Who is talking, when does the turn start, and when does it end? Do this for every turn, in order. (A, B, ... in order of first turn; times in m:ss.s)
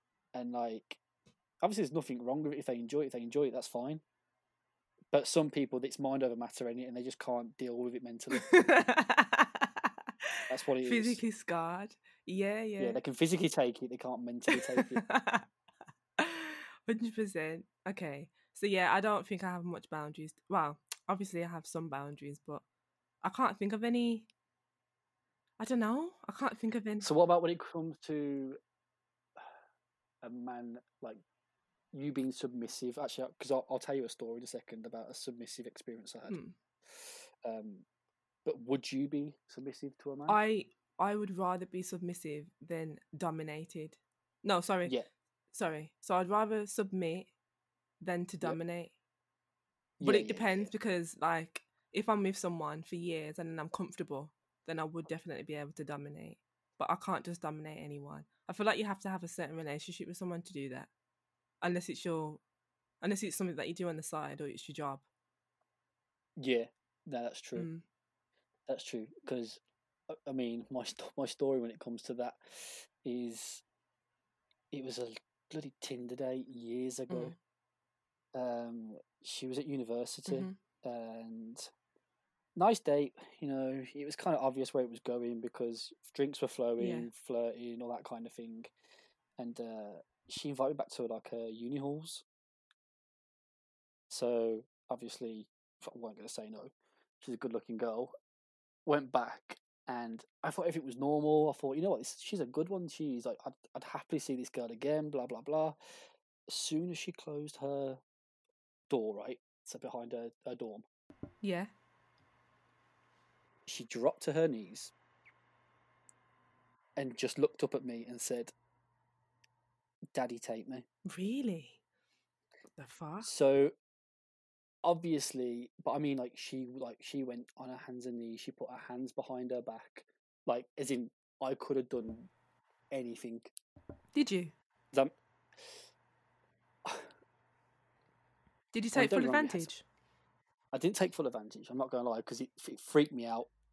0:00.3-0:01.0 A
0:01.6-0:04.0 A
0:05.1-0:08.7 A
0:08.3-0:13.0 B
0:10.5-0:11.2 A
0:12.8-0:15.0 A
0:14.5-0:15.5 B
0:16.2-0:22.6 B
0:23.2-0:24.3 B
0:25.6-0:27.1 B
0:27.0-0:28.6 A
0:30.2-0:31.2 A
0:31.9-0:36.4 A
0:36.3-0:36.6 B
0:36.9-0:37.9 A
0:38.5-0:40.4 A
0:40.3-0:45.0 B
0:45.5-0:47.3 B
0:48.0-0:49.0 B
0:50.0-0:50.7 A
0:50.0-1:00.9 B
1:01.6-1:02.4 B
1:03.0-1:05.0 B
1:06.4-1:07.7 A
1:07.6-1:07.8 B
1:08.7-1:13.6 A
1:14.7-1:17.3 A
1:17.1-1:17.4 B
1:18.3-1:21.7 A
1:20.3-1:20.6 B
1:22.6-1:28.7 A
1:26.8-1:27.1 B
1:29.4-1:32.2 A
1:34.1-1:38.1 A
1:38.9-1:45.8 A
1:46.5-1:48.0 A
1:48.9-1:50.9 A
1:51.4-1:51.7 B
1:53.7-1:54.9 A
1:57.0-1:58.5 A
2:00.1-2:00.8 A
2:01.1-2:01.8 B
2:02.8-2:03.3 B
2:03.2-2:03.8 A
2:04.8-2:12.3 A
2:12.9-2:13.5 A
2:14.1-2:14.5 B
2:16.8-2:17.1 A
2:18.7-2:19.8 B
2:18.9-2:19.7 A
2:20.7-2:23.5 A